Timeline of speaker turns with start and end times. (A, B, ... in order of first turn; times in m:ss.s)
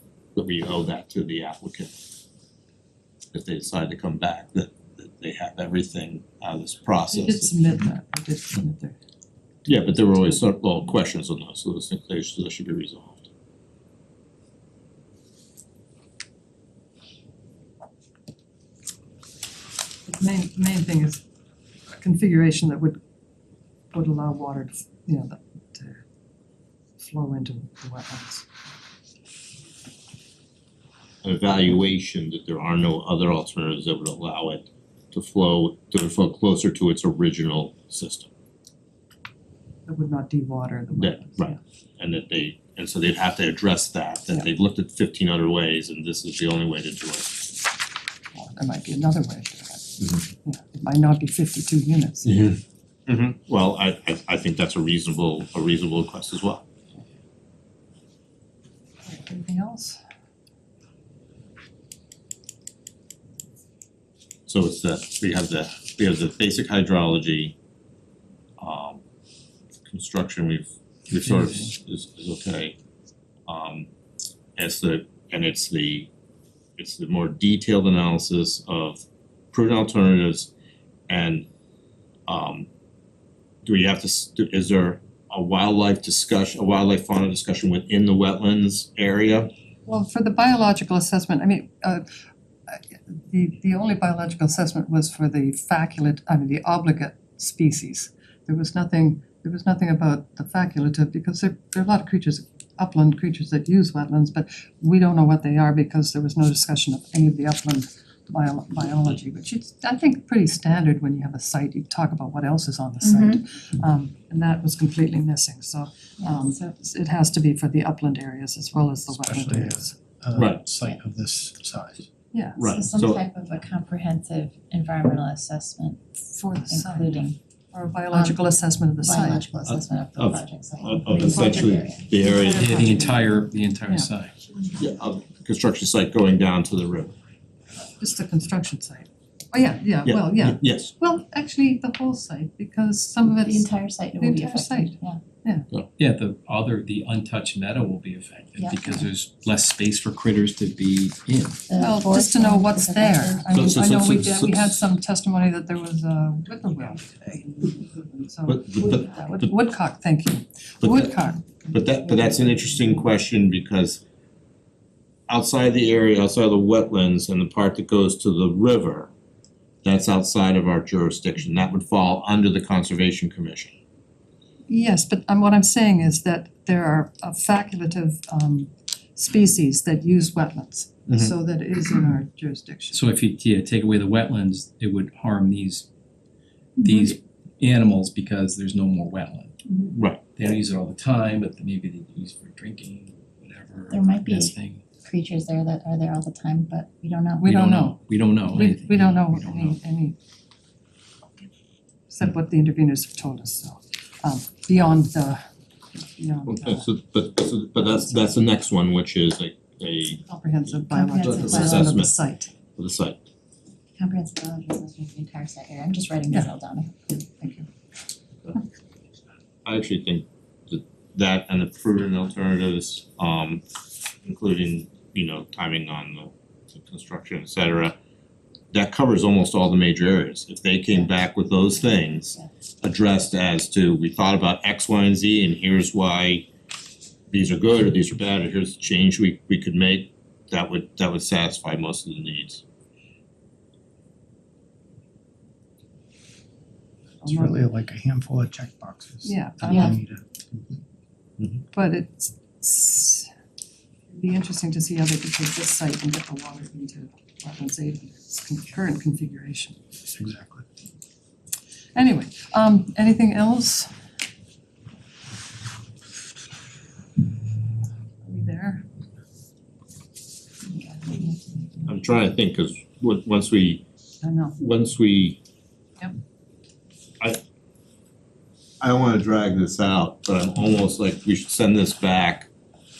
0:00.3-0:01.9 A
0:03.3-0:07.5 A
0:07.1-0:09.0 B
0:09.6-0:13.2 A
0:20.0-0:21.2 B
0:21.9-0:23.0 B
0:23.9-0:26.0 B
0:27.0-0:28.5 B
0:31.2-0:38.3 A
0:39.8-0:41.6 B
0:41.0-0:47.4 A
0:48.3-0:52.6 B
0:52.2-0:56.6 A
0:59.0-1:00.0 B
1:04.5-1:07.6 A
1:08.6-1:09.0 A
1:09.8-1:12.8 A
1:11.1-1:11.7 C
1:13.5-1:13.9 A
1:14.6-1:16.1 A
1:16.8-1:20.5 A
1:21.1-1:21.4 A
1:22.3-1:22.7 A
1:23.6-1:29.5 A
1:29.8-1:32.0 B
1:32.7-1:59.9 B
1:53.0-1:53.4 D
1:56.2-1:56.7 D
1:59.1-2:02.1 E
2:00.3-2:00.6 A
2:02.3-2:02.7 B
2:02.6-2:03.2 A
2:02.7-2:06.0 D
2:06.3-2:09.5 B
2:06.7-2:07.4 D
2:08.1-2:08.4 D
2:09.0-2:12.1 D
2:09.7-2:12.8 A
2:12.2-2:13.3 B
2:12.3-2:14.3 C
2:14.8-2:17.1 A
2:18.0-2:25.7 B
2:20.0-2:20.9 A
2:23.4-2:25.2 D
2:26.0-2:31.6 C
2:28.6-2:29.1 D
2:31.7-2:33.7 D
2:31.8-2:41.4 B
2:33.5-2:34.7 A
2:38.5-2:39.5 A
2:40.8-2:41.1 A
2:41.7-2:44.0 A
2:45.3-2:49.1 A
2:49.8-2:53.7 A
2:54.7-3:03.0 B
3:01.1-3:01.3 A
3:02.9-3:05.9 C
3:06.8-3:09.6 C
3:09.9-3:10.2 A
3:10.3-3:14.8 C
3:13.9-3:17.5 D
3:17.4-3:20.2 B
3:17.4-3:19.8 C
3:22.1-3:25.4 B
3:25.9-3:26.9 B
3:26.5-3:30.2 A
3:27.8-3:28.3 B
3:30.2-3:32.5 B
3:30.9-3:31.9 D
3:31.1-3:32.1 A
3:32.8-3:33.2 A
3:34.0-3:37.1 D
3:37.1-3:37.7 B
3:39.6-3:43.6 A
3:44.2-3:48.0 A
3:48.7-3:56.5 A
3:51.7-3:52.5 D
3:57.3-4:02.6 A
4:07.2-4:07.6 B
4:07.2-4:10.8 E
4:09.2-4:10.0 B
4:09.7-4:09.9 D
4:11.7-4:13.3 B
4:14.1-4:19.8 B
4:20.1-4:20.6 E
4:21.9-4:23.9 B
4:28.2-4:28.8 B
4:30.7-4:32.0 D
4:31.9-4:33.8 A
4:34.2-4:34.6 B
4:34.6-4:35.4 A
4:38.8-4:42.5 A